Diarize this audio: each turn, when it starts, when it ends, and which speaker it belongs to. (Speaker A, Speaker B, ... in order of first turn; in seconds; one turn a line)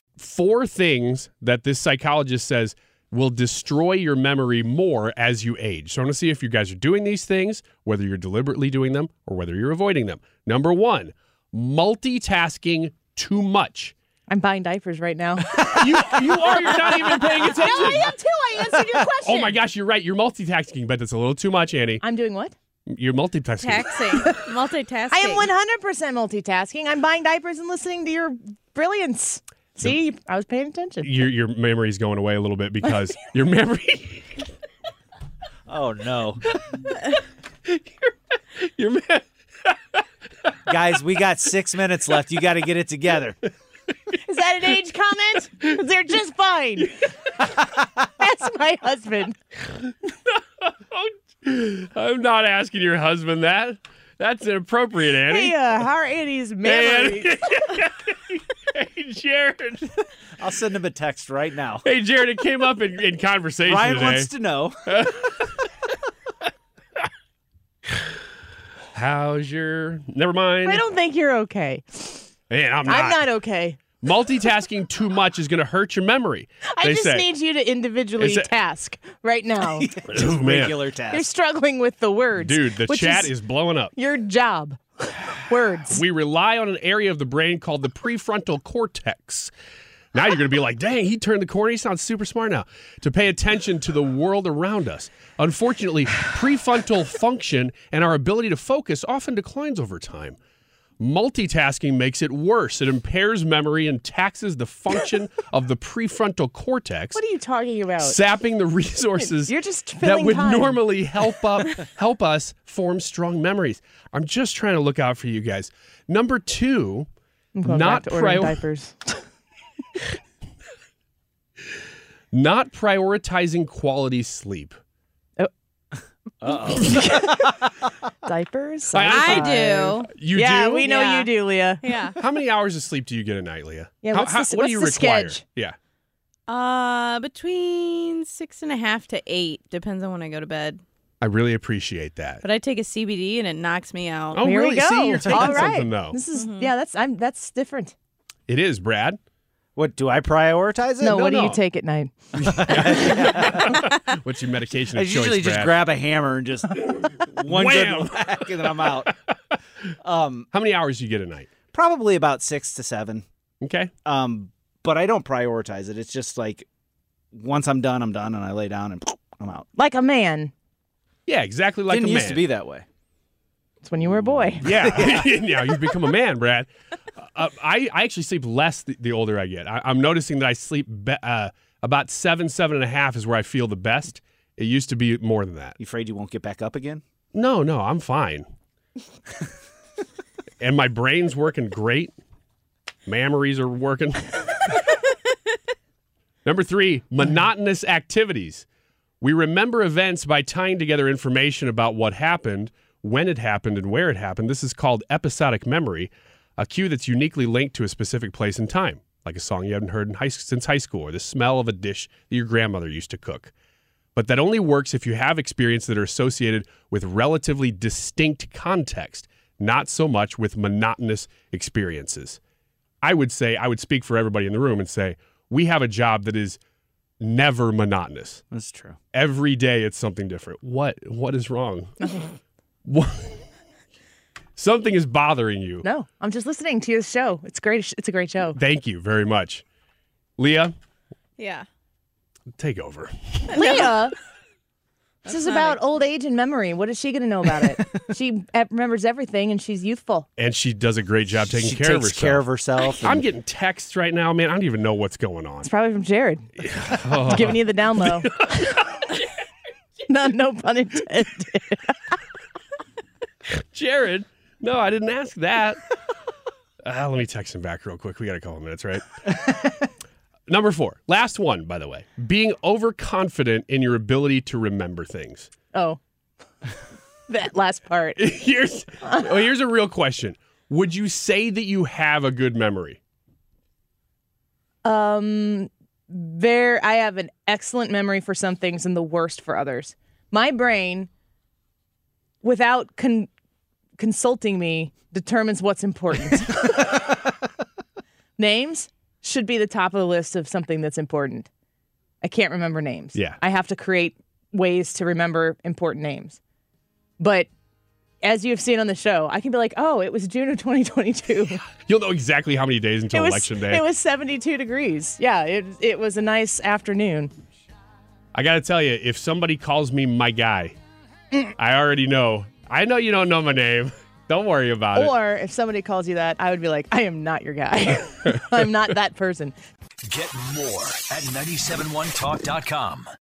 Speaker A: 0.2-13.9
Speaker B: 14.3-19.6
Speaker A: 15.5-18.1
Speaker A: 19.2-22.0
Speaker B: 22.0-22.6
Speaker A: 22.9-24.3
Speaker C: 23.6-25.5
Speaker B: 24.1-24.4
Speaker B: 25.1-31.1
Speaker A: 31.0-34.5
Speaker D: 35.7-36.4
Speaker A: 36.6-39.8
Speaker D: 40.7-43.4
Speaker B: 44.3-47.0
Speaker B: 47.7-49.4
Speaker A: 49.7-55.6
Speaker B: 55.2-57.4
Speaker A: 56.6-60.0
Speaker D: 60.4-61.9
Speaker A: 61.8-64.3
Speaker D: 63.6-64.8
Speaker A: 64.9-65.7
Speaker A: 68.9-70.8
Speaker B: 70.7-72.3
Speaker A: 72.5-73.3
Speaker B: 72.9-73.8
Speaker A: 74.0-77.3
Speaker B: 76.7-79.9
Speaker A: 78.2-78.5
Speaker D: 79.8-81.3
Speaker A: 80.1-80.8
Speaker B: 81.1-83.3
Speaker A: 82.4-83.9
Speaker B: 84.0-86.0
Speaker A: 85.9-89.5
Speaker A: 90.2-100.4
Speaker A: 101.0-107.2
Speaker B: 107.1-108.2
Speaker A: 108.0-117.1
Speaker B: 109.2-110.8
Speaker B: 117.5-119.2
Speaker A: 117.7-118.6
Speaker A: 122.3-124.8
Speaker D: 126.4-127.3
Speaker B: 126.4-127.5
Speaker B: 128.2-132.2
Speaker A: 128.9-130.9
Speaker C: 129.1-130.1
Speaker C: 130.8-132.2
Speaker A: 132.2-135.8
Speaker B: 134.0-135.4
Speaker C: 136.5-140.8
Speaker A: 141.2-142.4
Speaker C: 142.4-144.4
Speaker A: 144.3-146.2
Speaker B: 144.4-147.9
Speaker C: 145.3-145.7
Speaker C: 146.3-146.7
Speaker A: 148.5-149.2
Speaker D: 149.8-151.2
Speaker B: 151.0-153.1
Speaker A: 151.1-151.6
Speaker A: 152.4-155.8
Speaker D: 152.5-153.8
Speaker D: 154.9-159.1
Speaker A: 156.8-159.1
Speaker D: 160.0-160.5
Speaker A: 160.5-161.5
Speaker D: 161.7-163.2
Speaker A: 163.6-163.9
Speaker D: 164.1-166.7
Speaker D: 167.3-169.7
Speaker B: 169.8-170.5
Speaker A: 171.3-172.4
Speaker D: 171.9-172.8
Speaker B: 173.8-174.7
Speaker D: 174.2-175.3
Speaker A: 174.6-176.7
Speaker A: 177.2-185.8
Speaker D: 185.8-187.0
Speaker A: 187.3-188.5
Speaker A: 190.6-192.1
Speaker A: 193.1-194.8
Speaker A: 196.4-198.7
Speaker A: 199.2-213.5
Speaker A: 214.2-222.4
Speaker A: 223.0-226.6
Speaker A: 227.2-228.4
Speaker D: 228.5-229.0
Speaker A: 229.1-232.3
Speaker A: 232.9-233.5
Speaker A: 234.6-235.9
Speaker B: 235.8-238.6
Speaker A: 238.6-239.6
Speaker A: 240.4-240.7
Speaker C: 241.4-241.7
Speaker A: 242.6-243.7
Speaker C: 243.5-243.9
Speaker B: 243.6-244.2
Speaker C: 245.2-245.8
Speaker B: 245.2-250.3
Speaker A: 250.4-252.5
Speaker D: 251.4-253.2
Speaker A: 253.0-255.7
Speaker B: 255.6-258.3
Speaker A: 256.6-259.1
Speaker B: 260.1-262.1
Speaker A: 263.5-265.8
Speaker A: 266.8-269.8
Speaker A: 270.5-275.5
Speaker B: 275.7-276.0
Speaker B: 277.3-278.2
Speaker A: 278.2-283.0
Speaker B: 284.8-291.1
Speaker B: 292.4-293.3
Speaker B: 294.0-297.2
Speaker B: 298.4-301.5
Speaker B: 302.2-306.4
Speaker A: 303.1-303.4
Speaker B: 307.2-307.5
Speaker B: 308.2-311.7
Speaker A: 311.9-313.8
Speaker B: 313.1-317.3
Speaker A: 318.4-320.8
Speaker A: 321.6-325.1
Speaker B: 324.9-329.6
Speaker E: 330.1-333.1